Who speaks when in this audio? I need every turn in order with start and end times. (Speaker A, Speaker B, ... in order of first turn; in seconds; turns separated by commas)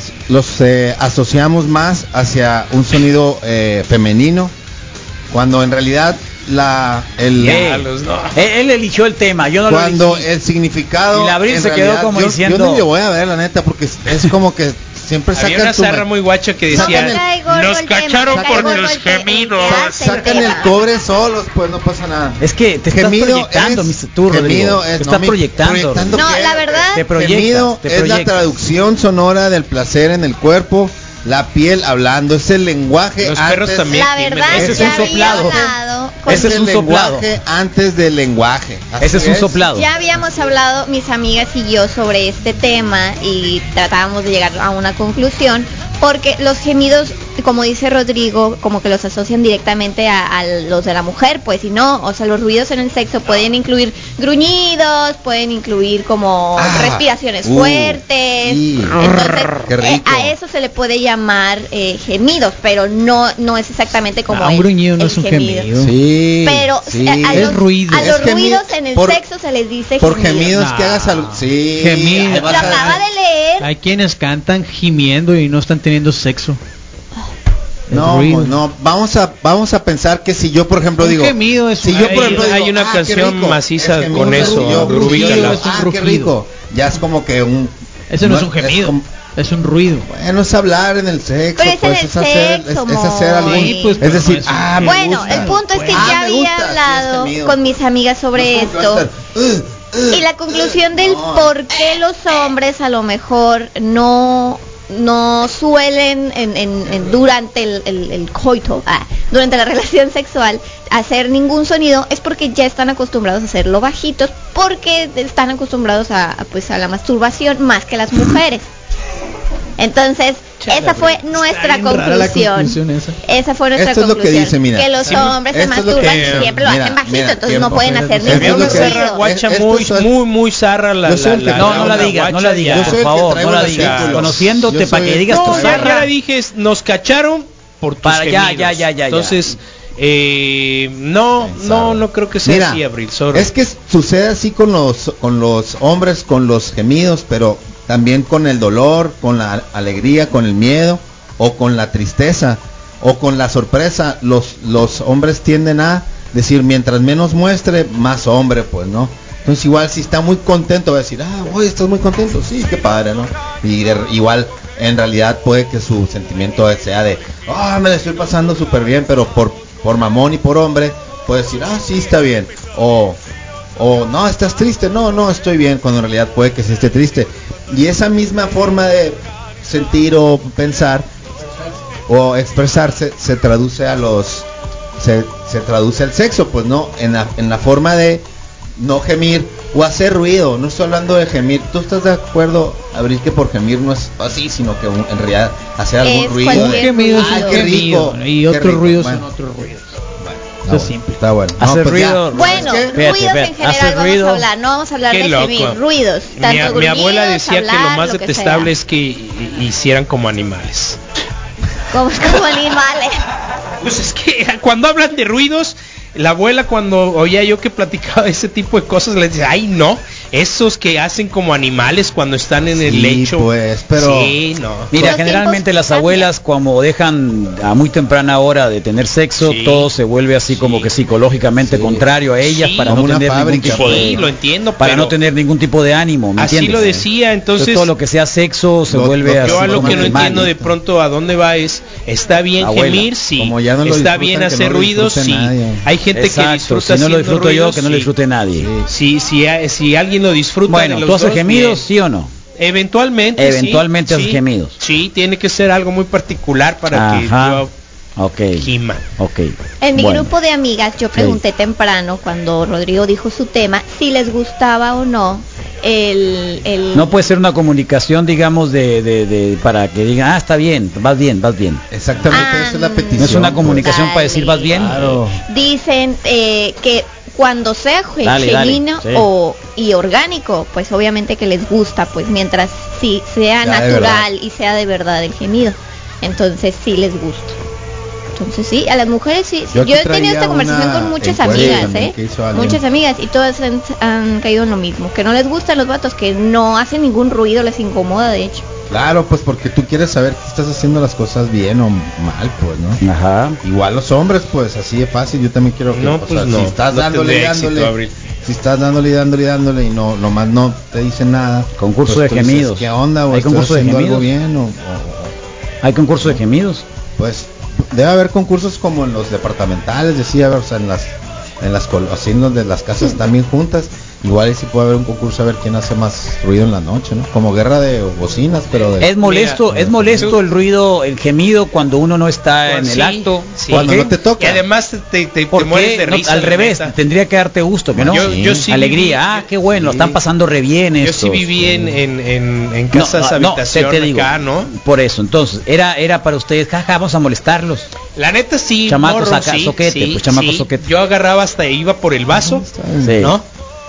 Speaker A: 0.2-4.5, Speaker A: 5.3-7.7, Speaker B: 7.4-8.4, Speaker C: 7.4-10.3, Speaker A: 9.7-16.1, Speaker C: 11.1-12.8, Speaker B: 15.3-20.5, Speaker A: 16.7-17.2, Speaker D: 16.7-20.7, Speaker A: 18.2-19.0, Speaker A: 19.6-35.7, Speaker C: 22.4-26.2, Speaker D: 26.1-27.1, Speaker C: 26.9-28.4, Speaker B: 33.2-35.3, Speaker D: 33.9-36.6, Speaker C: 34.5-35.7, Speaker C: 36.2-37.2, Speaker A: 36.2-39.7, Speaker C: 39.0-39.9, Speaker D: 39.7-65.7, Speaker A: 56.6-60.3, Speaker E: 64.3-65.9, Speaker A: 65.8-69.2, Speaker D: 66.4-70.6, Speaker E: 67.3-68.2, Speaker A: 70.0-73.0, Speaker E: 70.5-73.0, Speaker D: 72.3-73.7, Speaker E: 73.6-76.6, Speaker E: 77.9-78.6, Speaker A: 77.9-89.0, Speaker E: 81.0-82.5, Speaker B: 81.9-85.8, Speaker E: 84.1-86.3, Speaker E: 88.1-90.1, Speaker A: 90.1-97.8, Speaker D: 91.6-94.0, Speaker E: 93.4-96.2, Speaker D: 94.8-99.1, Speaker A: 98.3-101.5, Speaker D: 100.1-118.6, Speaker D: 119.8-129.2, Speaker E: 120.7-123.2, Speaker A: 123.7-130.1, Speaker B: 125.0-125.3, Speaker B: 125.9-126.5, Speaker E: 127.5-128.9, Speaker B: 128.3-134.4, Speaker A: 131.0-136.1, Speaker C: 131.5-136.0, Speaker B: 135.3-143.5, Speaker C: 138.0-139.6, Speaker A: 141.4-173.2, Speaker A: 173.8-181.1, Speaker A: 182.1-188.2, Speaker A: 188.8-199.2, Speaker D: 196.0-197.6, Speaker E: 196.5-199.9, Speaker A: 200.2-203.0, Speaker E: 200.7-201.2, Speaker C: 201.6-204.4, Speaker D: 202.3-208.7, Speaker B: 205.1-205.8, Speaker B: 206.4-211.0, Speaker D: 211.9-213.2, Speaker B: 213.8-225.2, Speaker A: 222.8-224.4, Speaker C: 224.9-234.2, Speaker D: 224.9-226.3, Speaker B: 229.4-229.9, Speaker B: 230.5-230.9, Speaker A: 231.6-232.1, Speaker B: 232.4-233.0, Speaker A: 232.8-234.3, Speaker B: 233.6-235.2, Speaker C: 234.8-237.0, Speaker B: 236.4-237.9, Speaker C: 237.6-240.5, Speaker A: 238.9-240.7, Speaker B: 239.4-248.1, Speaker C: 242.6-243.1, Speaker A: 243.3-245.9, Speaker C: 246.1-248.7, Speaker A: 248.5-248.9, Speaker B: 248.9-251.9, Speaker C: 250.7-252.3, Speaker B: 252.6-257.7, Speaker C: 253.4-254.7, Speaker C: 256.9-257.6, Speaker C: 258.2-258.7, Speaker B: 258.6-259.0, Speaker C: 259.2-260.3, Speaker D: 259.8-267.1, Speaker C: 266.9-271.8, Speaker A: 271.9-273.9, Speaker D: 272.3-287.5, Speaker C: 273.2-275.2, Speaker A: 274.7-275.4, Speaker C: 278.2-279.2, Speaker A: 283.6-284.3, Speaker D: 288.4-298.6, Speaker A: 289.7-292.8, Speaker C: 291.5-291.9, Speaker A: 298.9-303.0, Speaker C: 303.0-303.6, Speaker A: 303.6-315.3, Speaker B: 305.9-308.1, Speaker C: 311.8-314.3, Speaker C: 315.8-316.8, Speaker A: 317.2-330.3, Speaker C: 329.0-334.0, Speaker B: 329.2-329.6, Speaker B: 332.6-336.9, Speaker A: 333.7-334.6, Speaker C: 335.5-341.9, Speaker A: 337.9-338.7, Speaker B: 338.0-339.5, Speaker A: 339.7-340.2, Speaker B: 341.0-344.7, Speaker C: 342.9-347.9, Speaker B: 348.1-352.7, Speaker C: 348.9-350.8, Speaker A: 352.3-353.3, Speaker C: 353.0-353.3, Speaker B: 353.2-353.4